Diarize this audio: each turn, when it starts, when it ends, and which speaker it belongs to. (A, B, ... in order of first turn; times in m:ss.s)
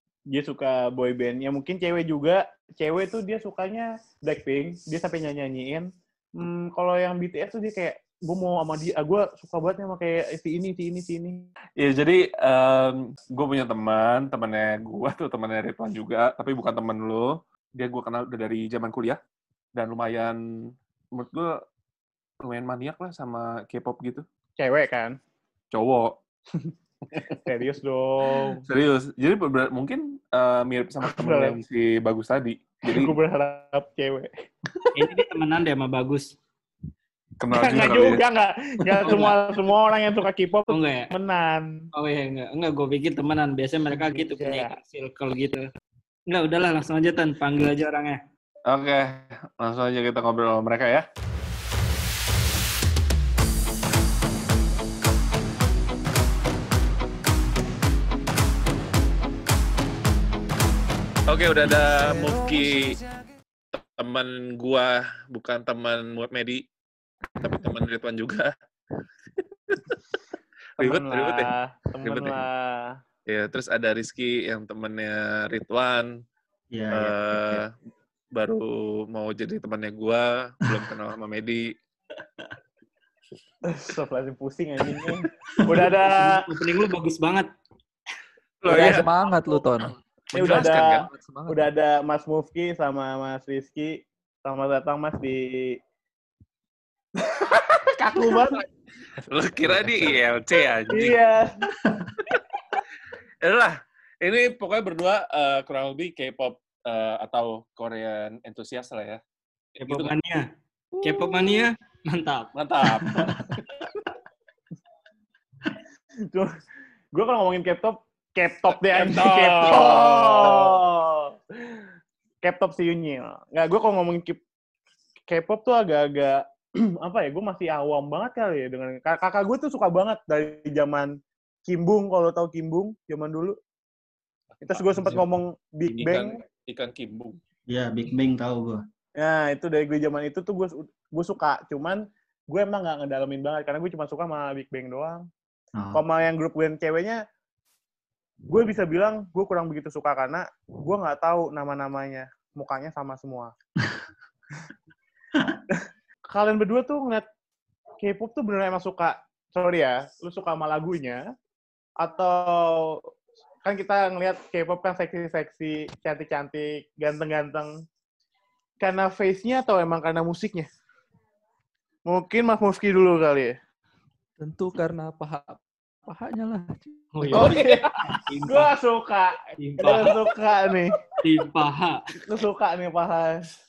0:00.3-0:11.4 A
0:11.8-0:19.2 B
0:19.8-0:21.6 B
0:22.4-0:24.2 B
0:24.6-0:25.2 A
0:25.7-0:26.2 B
0:26.5-0:28.6 A
0:27.1-0:27.4 B
0:28.3-0:33.2 B
0:31.0-0:31.6 A
0:32.9-0:34.3 A
0:34.9-0:36.3 C
0:37.4-0:38.2 B
0:37.5-0:41.8 A
0:38.9-0:39.2 B
0:39.0-0:39.4 C
0:40.7-0:41.1 C
0:41.9-0:45.6 C
0:43.9-0:44.7 A
0:46.3-0:48.2 C
0:48.7-0:51.0 B
1:01.3-1:03.0 B
1:03.7-1:06.6 B
1:07.4-1:08.5 B
1:09.4-1:09.9 B
1:10.8-1:11.5 B
1:10.8-1:12.9 A
1:12.0-1:12.4 B
1:13.3-1:16.1 B
1:16.7-1:17.6 D
1:16.9-1:17.7 B
1:18.3-1:21.6 B
1:23.7-1:26.4 A
1:26.0-1:27.5 C
1:28.6-1:29.1 B
1:28.7-1:29.9 E
1:30.3-1:31.1 B
1:30.3-1:35.8 A
1:31.0-1:31.7 E
1:37.2-1:38.6 A
1:38.2-1:38.6 B
1:39.2-1:41.2 B
1:39.6-1:40.2 E
1:40.9-1:41.6 A
1:41.7-1:42.1 D
1:43.4-1:49.2 B
1:49.8-1:50.5 C
1:51.0-1:52.5 C
1:52.5-1:53.6 B
1:57.1-2:01.8 A
1:58.7-2:00.8 B
2:02.4-2:04.4 A
2:05.3-2:11.1 A
2:11.7-2:13.6 A
2:14.5-2:15.2 B
2:14.6-2:16.4 A
2:15.9-2:17.4 B
2:17.7-2:18.8 D
2:19.2-2:25.3 A
2:25.8-2:26.0 D
2:25.9-2:27.2 A
2:28.5-2:33.5 A
2:35.3-2:35.6 D
2:36.3-2:37.2 A
2:38.0-2:41.2 A
2:42.0-2:43.0 A
2:43.6-2:47.7 A
2:48.8-2:50.7 A
2:52.0-2:53.6 A
2:54.4-2:57.3 E
2:57.2-2:57.6 C
2:57.3-2:57.8 B
2:57.3-3:01.2 A
2:58.2-2:58.7 C
2:59.6-3:00.3 C
3:01.2-3:02.1 C
3:02.2-3:03.5 A